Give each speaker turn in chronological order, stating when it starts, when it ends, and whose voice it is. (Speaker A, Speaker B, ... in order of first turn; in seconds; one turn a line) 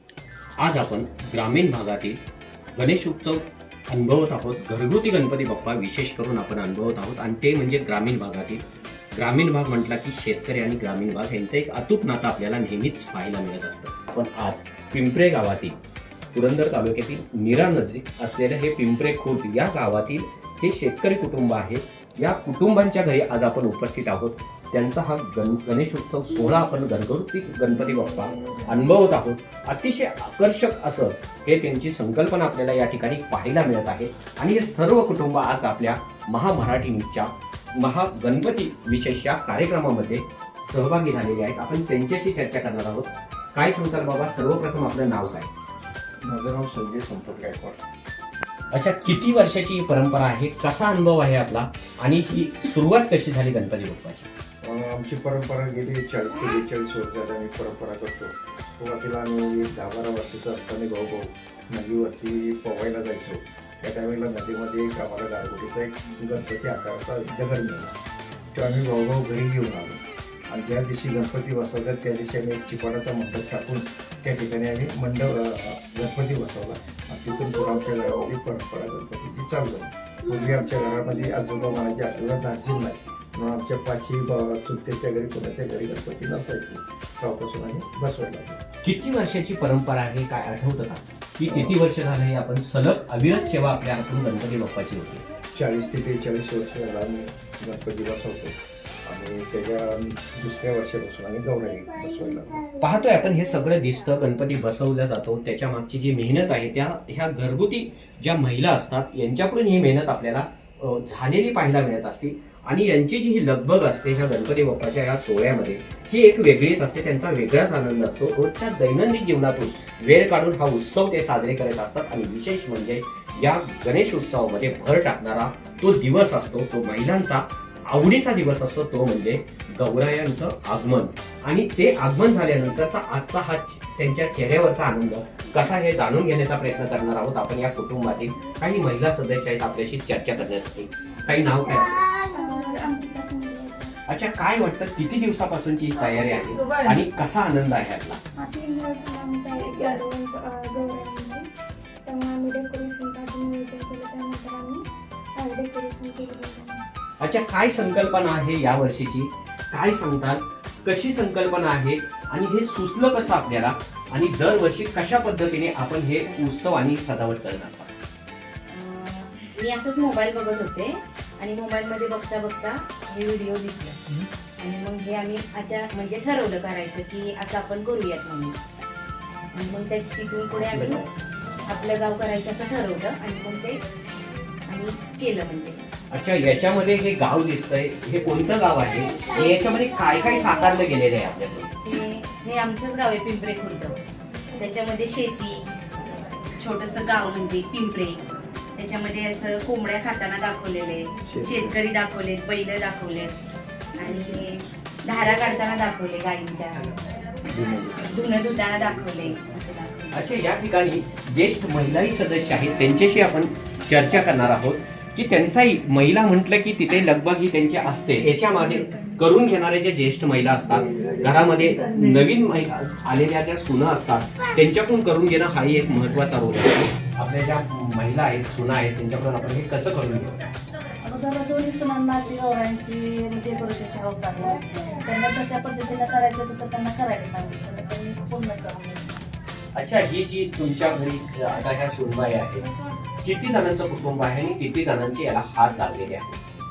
Speaker A: 0.6-2.2
Speaker A: 2.8-8.6
Speaker A: 9.2-15.8
Speaker A: 16.3-45.5
Speaker B: 27.9-28.8
Speaker C: 46.2-47.8
Speaker A: 48.7-54.3
Speaker C: 54.6-68.0
Speaker C: 68.5-88.6
Speaker A: 88.8-95.2
Speaker C: 91.4-91.8
Speaker C: 95.5-102.7
Speaker B: 102.5-103.7
Speaker A: 102.8-142.0
Speaker B: 141.6-143.9
Speaker A: 144.1-148.2
Speaker B: 148.4-151.5
Speaker B: 152.0-156.8
Speaker A: 157.2-167.9
Speaker D: 168.7-174.0
Speaker D: 174.6-178.6
Speaker D: 179.5-181.1
Speaker A: 180.5-181.1
Speaker D: 181.7-183.8
Speaker D: 184.7-185.8
Speaker A: 186.1-191.7
Speaker D: 191.8-194.0
Speaker D: 194.6-195.7
Speaker D: 196.6-203.4
Speaker C: 201.3-201.8
Speaker D: 203.9-207.0
Speaker C: 207.5-207.9
Speaker D: 207.7-210.3
Speaker A: 210.1-230.3
Speaker E: 231.0-239.2
Speaker A: 239.8-242.7
Speaker A: 243.2-246.2